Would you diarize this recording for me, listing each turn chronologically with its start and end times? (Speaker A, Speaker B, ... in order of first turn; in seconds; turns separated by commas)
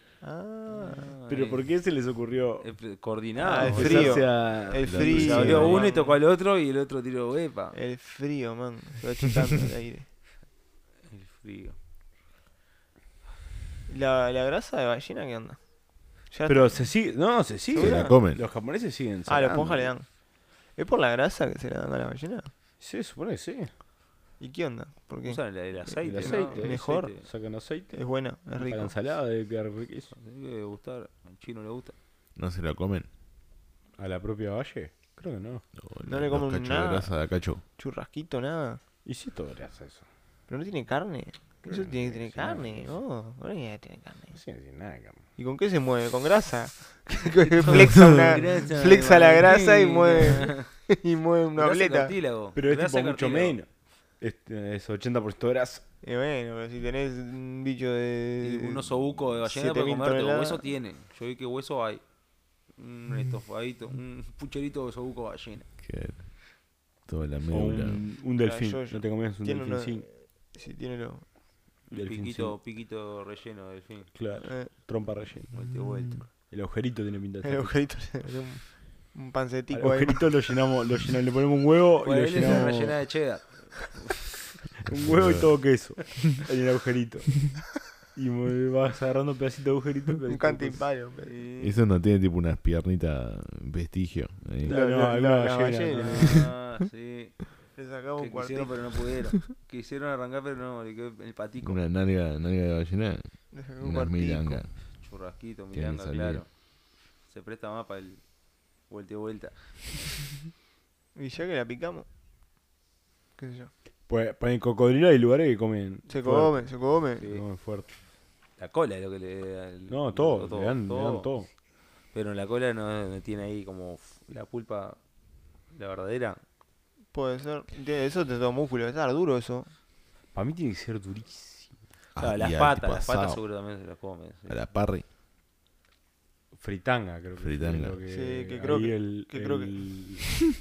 Speaker A: 0.2-1.1, Speaker B: 0.7-1.6, Speaker C: 1.3-2.7, Speaker B: 2.6-4.3, Speaker A: 3.4-6.2, Speaker C: 3.5-5.9, Speaker D: 4.8-5.8, Speaker B: 5.0-7.8, Speaker A: 7.7-10.1, Speaker B: 11.1-11.8, Speaker A: 13.9-15.6, Speaker A: 16.2-16.9, Speaker C: 16.4-19.9, Speaker A: 17.7-18.2, Speaker D: 17.7-18.4, Speaker A: 19.2-20.1, Speaker A: 20.7-22.5, Speaker C: 22.8-23.7, Speaker A: 24.4-27.1, Speaker B: 25.2-27.2, Speaker C: 26.0-28.0, Speaker A: 27.9-28.9, Speaker C: 28.5-30.1, Speaker B: 30.1-31.9, Speaker D: 32.4-33.1, Speaker C: 34.0-35.6, Speaker D: 35.8-37.6, Speaker A: 36.0-37.1, Speaker A: 37.8-38.8, Speaker C: 39.0-40.0, Speaker A: 40.5-44.4, Speaker D: 41.7-42.6, Speaker C: 42.2-42.9, Speaker C: 44.3-45.2, Speaker A: 45.4-52.1, Speaker B: 47.6-50.7, Speaker B: 51.5-53.6, Speaker C: 52.5-53.7, Speaker C: 54.2-55.8, Speaker A: 56.0-60.6, Speaker B: 58.4-62.0, Speaker B: 62.7-65.7, Speaker D: 65.8-68.0, Speaker C: 67.5-70.0, Speaker A: 68.4-71.2, Speaker B: 71.9-74.1, Speaker C: 71.9-72.5, Speaker C: 74.1-75.5, Speaker A: 74.4-74.7, Speaker B: 75.5-76.3, Speaker C: 76.5-77.7, Speaker A: 77.4-80.4, Speaker C: 79.7-83.0, Speaker B: 82.0-84.3, Speaker C: 84.8-90.8, Speaker D: 85.0-85.5, Speaker A: 90.3-91.5, Speaker B: 91.2-91.7, Speaker D: 91.6-94.7, Speaker C: 94.6-96.5, Speaker A: 94.6-96.5, Speaker B: 95.9-97.6, Speaker A: 97.7-99.4, Speaker B: 98.2-101.8, Speaker D: 101.6-104.7, Speaker A: 103.5-104.6, Speaker B: 105.0-106.5, Speaker D: 105.7-106.4, Speaker B: 107.3-108.2, Speaker B: 108.9-110.0, Speaker A: 111.1-112.0, Speaker A: 113.4-113.7, Speaker C: 114.1-117.9, Speaker A: 116.1-117.2, Speaker B: 118.6-121.3, Speaker C: 119.9-121.5, Speaker B: 122.1-125.0, Speaker B: 125.7-126.4, Speaker A: 127.1-129.7, Speaker C: 130.3-131.7, Speaker D: 132.2-133.4, Speaker B: 132.2-134.7, Speaker D: 134.5-135.0, Speaker C: 136.5-140.5, Speaker D: 137.4-138.0, Speaker A: 138.1-140.0